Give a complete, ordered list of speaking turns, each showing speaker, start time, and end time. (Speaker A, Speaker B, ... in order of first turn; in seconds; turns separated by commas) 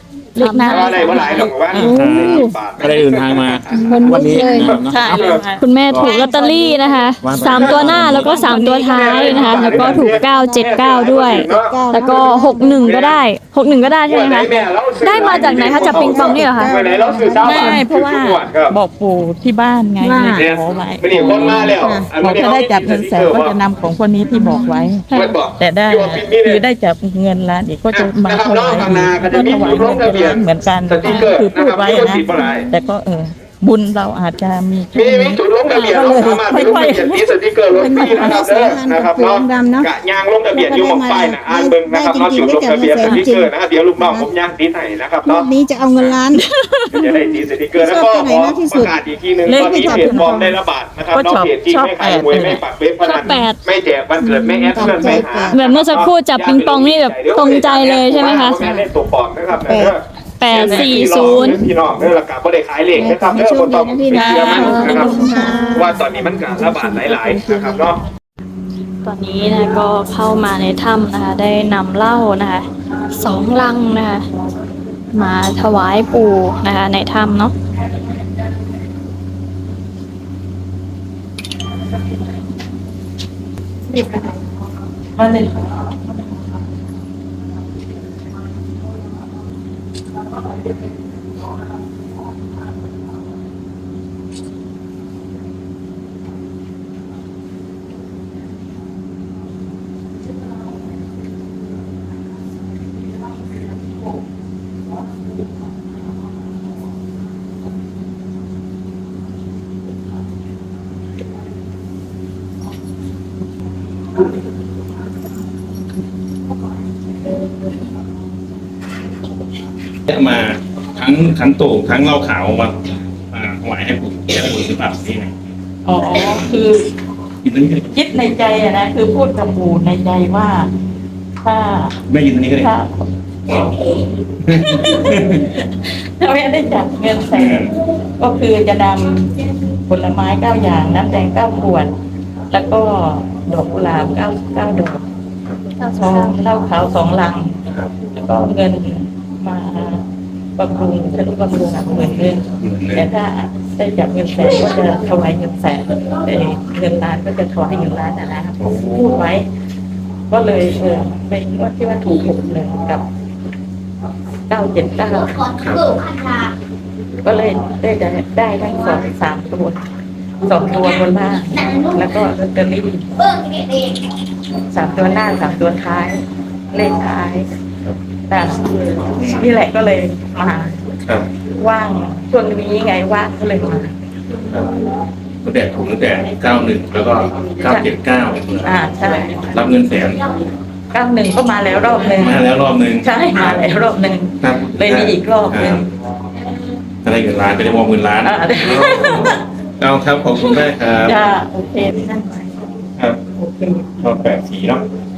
Speaker A: 0.3-2.0, Speaker B: 0.4-2.5, Speaker C: 0.7-5.4, Speaker D: 1.8-6.2, Speaker B: 3.8-4.7, Speaker E: 4.0-4.6, Speaker A: 4.7-7.0, Speaker B: 5.6-16.8, Speaker D: 7.2-8.4, Speaker C: 7.4-8.0, Speaker A: 7.9-9.7, Speaker C: 8.8-12.1, Speaker D: 9.2-10.2, Speaker E: 9.9-10.7, Speaker E: 11.3-13.0, Speaker C: 12.8-13.2, Speaker C: 14.1-18.7, Speaker E: 15.2-17.8, Speaker A: 17.4-37.3, Speaker B: 17.5-17.8, Speaker E: 20.0-20.4, Speaker C: 20.3-23.6, Speaker E: 21.2-22.1, Speaker E: 24.3-24.9, Speaker C: 25.1-26.6, Speaker C: 27.9-32.7, Speaker C: 34.9-45.5, Speaker E: 35.8-36.8, Speaker E: 37.7-39.9, Speaker A: 37.9-38.5, Speaker E: 40.5-44.3, Speaker A: 43.0-43.3, Speaker E: 45.2-46.4, Speaker A: 46.4-47.1, Speaker C: 46.9-68.0, Speaker E: 47.8-48.9, Speaker E: 49.5-50.5, Speaker A: 49.5-50.4, Speaker A: 51.1-52.6, Speaker B: 53.0-53.6, Speaker A: 54.2-55.0, Speaker E: 54.7-55.6, Speaker B: 55.5-58.6, Speaker E: 58.6-58.9, Speaker E: 59.6-60.0, Speaker B: 60.4-61.6, Speaker A: 60.5-61.2, Speaker E: 62.9-67.8, Speaker A: 64.1-65.5, Speaker B: 64.5-65.9, Speaker B: 69.0-74.2, Speaker B: 75.1-77.5, Speaker A: 83.9-84.3, Speaker A: 85.2-85.7, Speaker D: 120.1-122.8, Speaker D: 123.3-125.3, Speaker A: 125.8-126.9, Speaker D: 127.4-127.8, Speaker A: 127.9-130.7, Speaker A: 131.4-131.9, Speaker D: 132.1-132.7, Speaker A: 132.6-133.0, Speaker D: 134.5-135.4, Speaker A: 135.0-141.9, Speaker D: 137.3-137.7, Speaker A: 142.5-145.0, Speaker B: 145.8-146.4, Speaker A: 145.9-147.6, Speaker D: 147.7-148.5, Speaker A: 148.4-150.0, Speaker A: 150.6-159.4, Speaker D: 152.6-153.1, Speaker D: 158.6-159.2, Speaker A: 160.3-163.1, Speaker A: 164.5-165.4, Speaker D: 165.5-166.0, Speaker A: 167.2-169.8, Speaker A: 170.4-173.1, Speaker A: 174.7-177.5, Speaker A: 178.3-180.8, Speaker D: 179.2-179.5, Speaker A: 181.5-183.9, Speaker D: 184.5-184.8, Speaker D: 185.4-188.8, Speaker A: 187.6-187.9, Speaker A: 188.6-189.5, Speaker D: 189.4-190.2, Speaker A: 190.9-192.4, Speaker D: 192.1-193.6, Speaker A: 193.0-195.9, Speaker D: 194.4-195.8, Speaker D: 197.0-201.3, Speaker A: 198.2-199.4, Speaker A: 200.4-202.5, Speaker A: 203.4-203.9, Speaker D: 204.0-204.8